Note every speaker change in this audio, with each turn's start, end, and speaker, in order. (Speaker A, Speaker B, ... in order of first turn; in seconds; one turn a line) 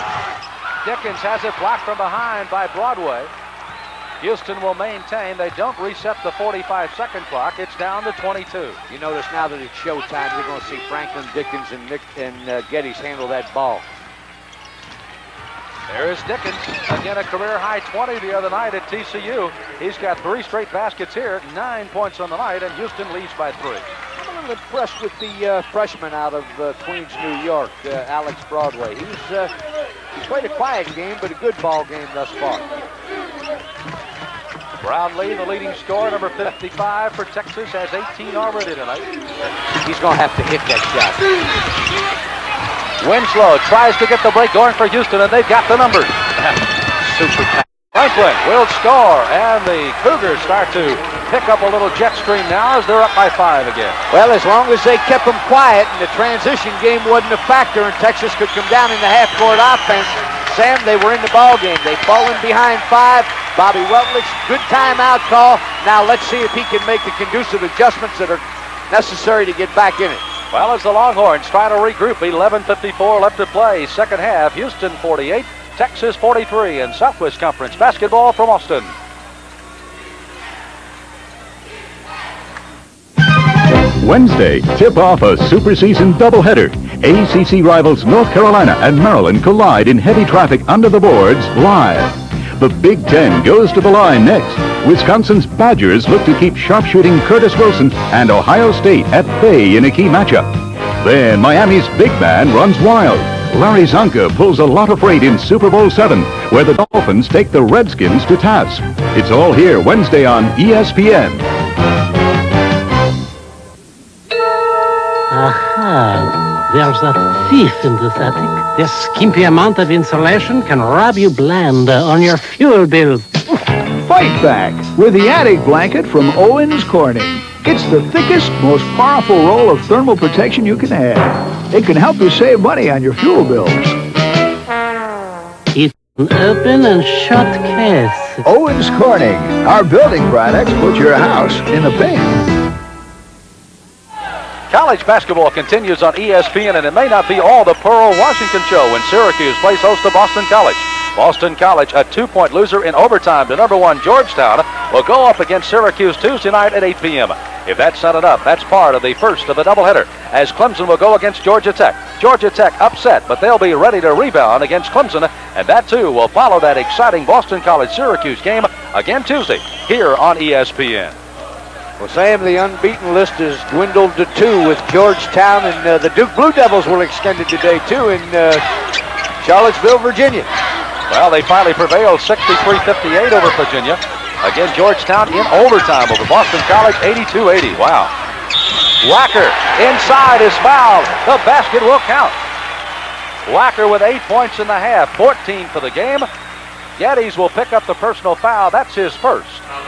Speaker A: 0.8-3.3
Speaker A: 4.2-8.8
Speaker B: 8.9-13.9
Speaker A: 15.9-23.9
Speaker B: 24.2-29.5
Speaker B: 30.1-32.7
Speaker A: 34.8-39.1
Speaker B: 39.8-41.3
Speaker A: 43.0-46.5
Speaker B: 47.0-47.6
Speaker A: 47.9-54.0
Speaker B: 54.1-70.2
Speaker A: 70.5-79.0
Speaker C: 84.0-111.5
Speaker D: 115.3-123.3
Speaker E: 123.9-133.9
Speaker D: 135.8-138.4
Speaker E: 138.5-142.4
Speaker A: 144.7-171.2
Speaker B: 172.0-178.6
Speaker B: 179.4-180.5
Speaker A: 181.1-188.1
Speaker A: 189.0-192.4
Speaker A: 193.5-196.3
Speaker A: 197.0-199.7